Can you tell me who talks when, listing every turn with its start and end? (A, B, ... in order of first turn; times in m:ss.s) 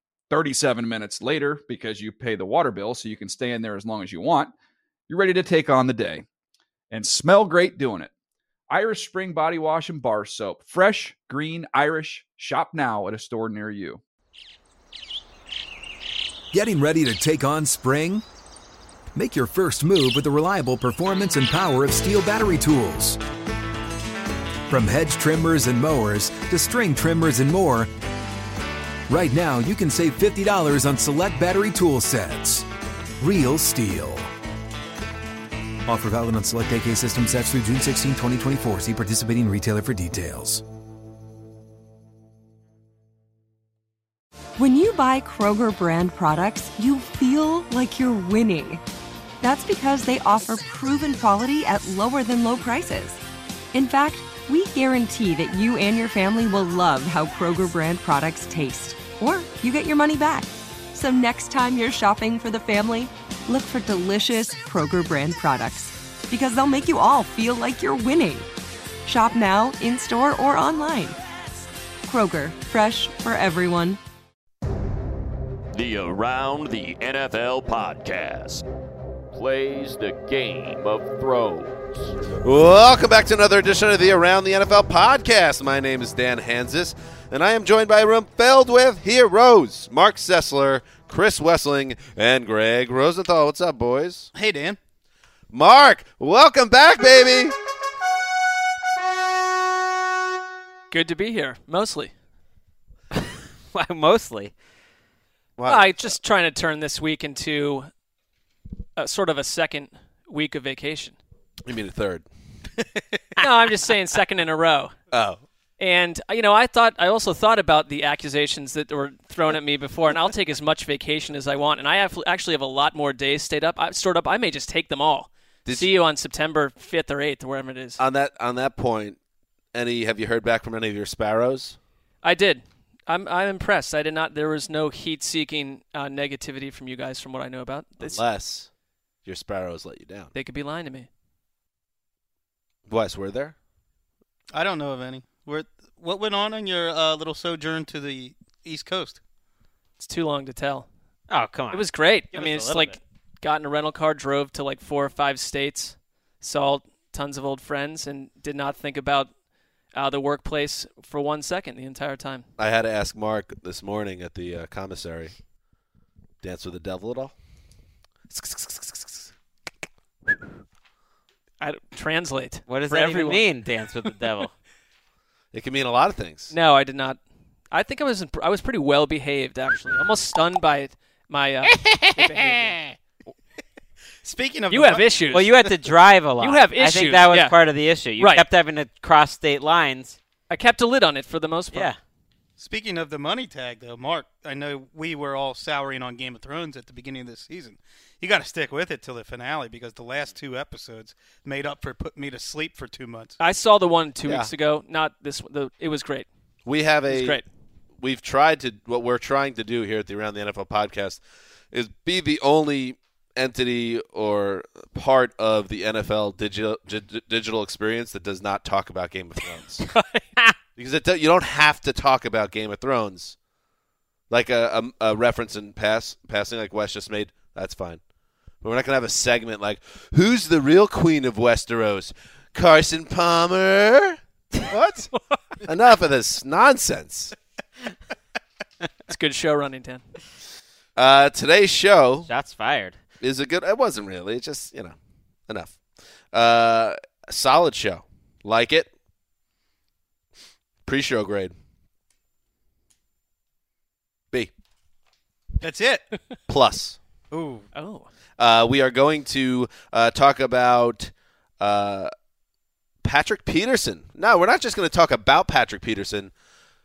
0:00.3-0:04.5 A
0:05.1-0:06.2 A
0:06.9-0:08.1 A
0:08.7-0:14.0 A
0:16.5-0:18.2 B
0:19.1-0:23.2 B
0:24.7-0:27.9 B
0:29.1-0:32.6 B
0:33.2-0:34.3 B
0:35.8-0:40.6 B
0:44.6-0:48.8 C
0:49.4-0:53.2 C
0:53.7-1:08.5 C
1:09.0-1:11.2 C
1:12.0-1:14.0 C
1:15.7-1:18.6 D
1:19.3-1:22.1 D
1:22.4-1:34.3 E
1:34.3-1:34.8 F
1:35.5-1:37.5 E
1:40.9-1:42.1 G
1:43.7-1:44.5 H
1:45.6-1:46.1 E
1:45.6-1:47.9 G
1:49.0-1:51.1 G
1:51.6-1:52.2 E
1:53.4-1:54.9 G
1:55.1-1:55.4 E
1:55.8-2:08.0 G
2:08.0-2:09.2 E
2:09.7-2:11.8 E
2:12.2-2:18.2 G
2:18.0-2:18.7 E
2:19.2-2:20.3 E
2:20.3-2:21.1 G
2:22.9-2:23.5 E
2:24.5-2:29.2 F
2:30.0-2:30.8 G
2:31.3-2:33.0 H
2:31.7-2:39.3 G
2:39.9-2:42.5 G
2:42.6-2:45.3 E
2:46.4-2:47.3 E
2:48.3-2:49.3 E
2:51.6-2:53.4 G
2:52.7-2:54.5 H
2:55.5-2:56.5 E
2:56.5-2:57.2 G
2:57.7-3:02.7 G
3:01.9-3:02.8 H
3:04.2-3:05.1 F
3:04.7-3:05.7 G
3:05.3-3:10.2 H
3:06.4-3:07.5 G
3:08.2-3:08.4 G
3:10.5-3:11.9 G
3:11.7-3:12.0 H
3:12.6-3:23.4 F
3:23.4-3:26.3 G
3:26.6-3:27.4 E
3:27.1-3:27.4 G
3:28.0-3:39.8 E
3:39.9-3:40.2 G
3:40.8-3:43.4 E
3:44.3-3:48.0 E
3:48.6-3:55.1 E
3:55.6-3:57.3 E
3:59.1-4:00.0 G
4:01.0-4:02.3 E
4:02.2-4:03.0 H
4:03.2-4:05.0 E
4:05.5-4:05.8 E
4:06.3-4:08.9 E
4:10.8-4:11.5 E
4:15.6-4:16.0 F
4:16.5-4:17.0 E
4:17.3-4:17.6 H
4:17.7-4:18.0 G
4:18.4-4:22.1 E
4:23.0-4:26.3 E